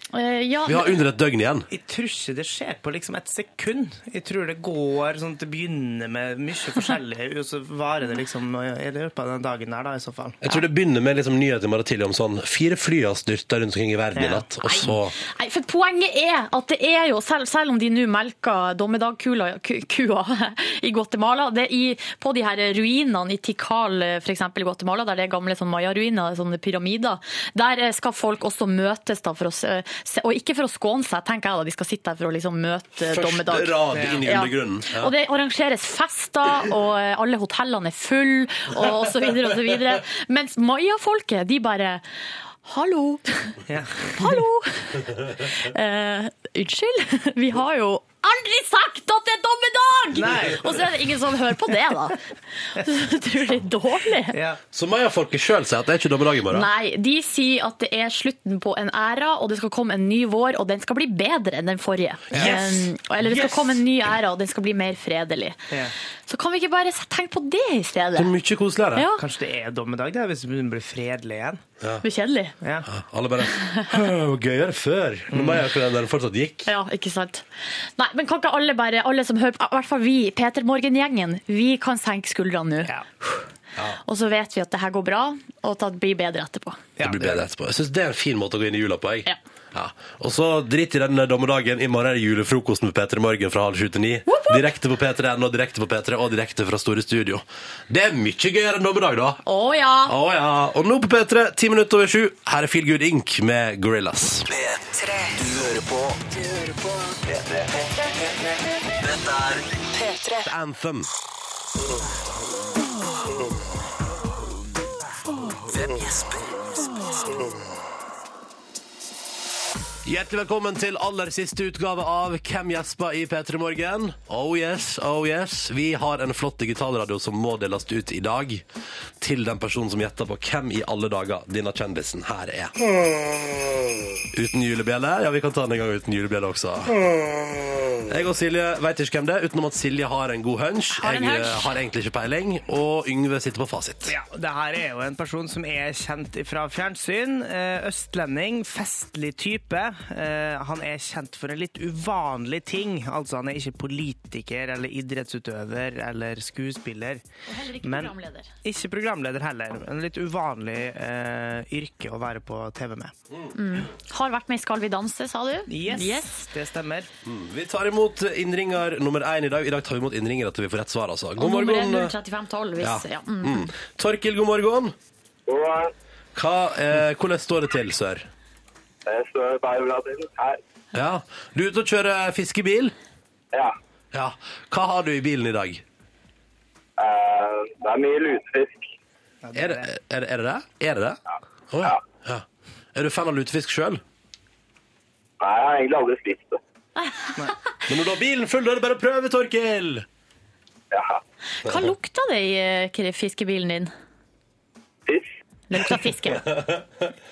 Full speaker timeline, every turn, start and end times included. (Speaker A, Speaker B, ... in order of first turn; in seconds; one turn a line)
Speaker A: 0.1-1.0
Speaker B: 0.7-1.7
Speaker C: 1.7-10.4
Speaker B: 10.4-15.1
Speaker C: 14.1-14.9
Speaker A: 14.6-42.0
Speaker B: 33.0-35.1
Speaker C: 33.9-34.2
Speaker A: 42.6-43.6
Speaker C: 43.7-44.2
Speaker A: 44.2-52.2
Speaker C: 50.1-50.8
Speaker A: 52.8-54.3
Speaker C: 54.3-54.6
Speaker B: 54.7-56.7
Speaker A: 56.5-65.6
Speaker C: 62.3-63.8
Speaker A: 66.3-68.3
Speaker B: 68.1-69.1
Speaker A: 68.9-69.2
Speaker C: 69.2-71.6
Speaker A: 72.0-72.5
Speaker C: 72.6-72.9
Speaker B: 72.8-76.7
Speaker A: 73.6-73.9
Speaker C: 75.3-75.7
Speaker A: 76.7-77.5
Speaker A: 78.0-83.5
Speaker A: 84.0-86.8
Speaker C: 87.0-87.4
Speaker B: 87.0-99.4
Speaker A: 94.3-94.6
Speaker A: 99.5-100.1
Speaker B: 100.0-104.5
Speaker D: 104.5-108.0
Speaker D: 109.0-110.5
Speaker B: 110.4-111.1
Speaker D: 115.7-116.6
Speaker B: 120.0-128.6
Speaker B: 129.2-132.7
Speaker B: 134.3-137.0
Speaker B: 138.1-144.1
Speaker A: 140.9-141.7
Speaker C: 144.1-157.2
Speaker A: 157.5-158.5
Speaker C: 157.8-158.1
Speaker C: 158.6-163.1
Speaker A: 163.5-166.4
Speaker C: 165.7-167.1
Speaker B: 167.2-172.1
Speaker A: 171.4-173.7
Speaker B: 172.8-174.9
Speaker E: 175.5-175.9
Speaker B: 176.3-178.3
Speaker E: 179.1-180.6
Speaker B: 180.9-182.9
Speaker B: 184.1-185.8
Speaker E: 187.0-188.8
Speaker C: 189.4-189.9
Speaker B: 189.5-194.0
Speaker E: 195.4-196.6
Speaker A: 197.0-197.5
Speaker B: 197.9-200.1
Speaker E: 200.9-201.2
Speaker A: 201.6-203.9
Speaker B: 201.6-201.9
Speaker A: 205.7-206.5
Speaker B: 206.3-207.1